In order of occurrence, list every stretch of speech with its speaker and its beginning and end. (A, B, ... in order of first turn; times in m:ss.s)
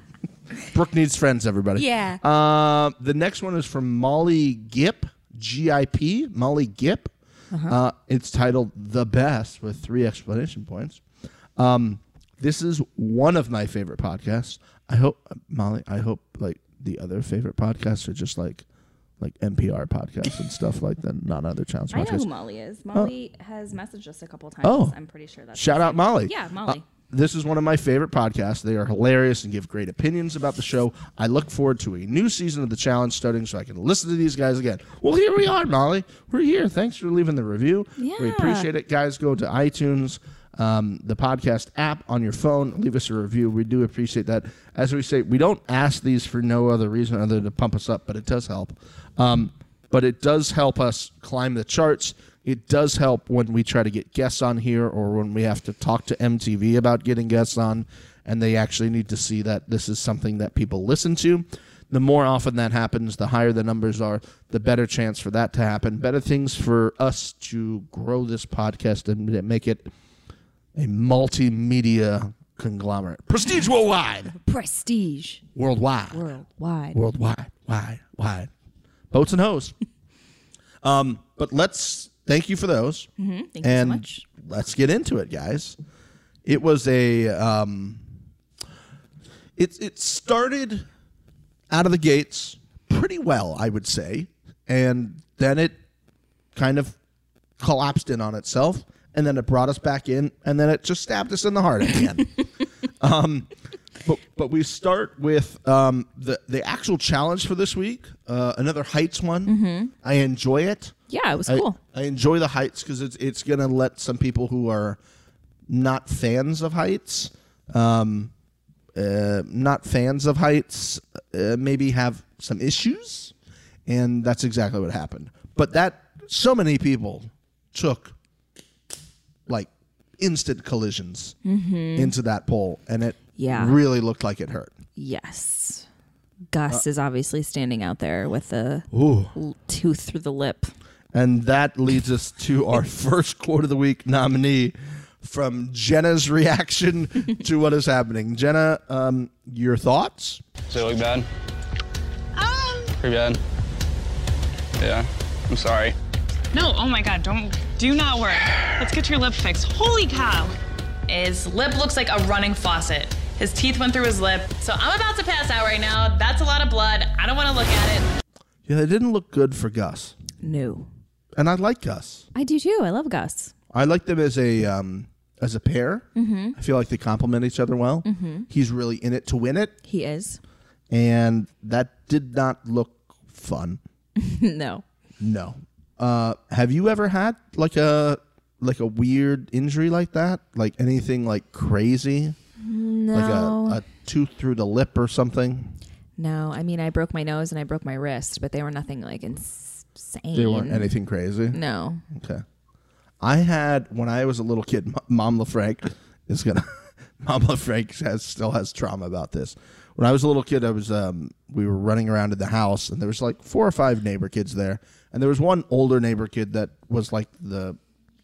0:00.7-0:07.1 A
0:01.7-0:02.2 B
0:07.7-0:11.0 A
0:11.6-0:18.6 A
0:19.2-0:22.2 A
0:21.9-0:26.8 B
0:24.6-0:25.0 A
0:25.5-1:09.9 A
0:38.0-0:38.7 B
1:10.7-1:14.3 A
1:14.4-1:15.4 B
1:15.5-1:16.2 A
1:16.1-1:17.0 B
1:16.9-1:18.5 A
1:19.1-1:19.7 A
1:20.8-1:23.1 A
1:23.2-1:24.2 B
1:23.6-1:25.8 A
1:26.4-1:28.0 A
1:29.6-1:30.8 A
1:31.7-1:35.8 A
1:36.5-1:37.0 A
1:37.6-1:42.4 A
1:43.0-1:43.5 A
1:44.0-1:50.9 A
1:49.4-1:49.9 B
1:51.1-1:51.8 B
1:51.5-1:55.0 A
1:55.7-1:58.3 A
1:58.9-2:03.3 A
2:03.8-2:08.2 A
2:09.5-2:11.3 A
2:11.4-2:12.1 B
2:11.9-2:14.7 A
2:13.4-2:13.8 B
2:15.0-2:15.8 B
2:16.5-2:20.7 B
2:18.9-2:19.3 A
2:21.1-2:30.4 A
2:30.7-2:31.2 C
2:32.3-2:33.0 D
2:33.0-2:33.4 C
2:34.8-2:35.9 C
2:36.5-2:40.6 D
2:41.1-2:48.1 D
2:48.6-2:50.2 A
2:50.4-2:50.9 B
2:51.3-2:52.2 A
2:52.3-2:53.5 B
2:53.7-2:59.8 A
2:56.1-2:56.6 B
2:58.0-2:58.5 B
2:59.8-3:00.4 B
3:00.9-3:03.8 A
3:04.2-3:04.8 B
3:05.2-3:12.4 A
3:12.6-3:13.8 B
3:13.1-3:15.8 A
3:16.2-3:20.9 B
3:20.3-3:21.6 A
3:21.5-3:22.0 B
3:22.1-3:22.4 A
3:23.2-3:37.8 A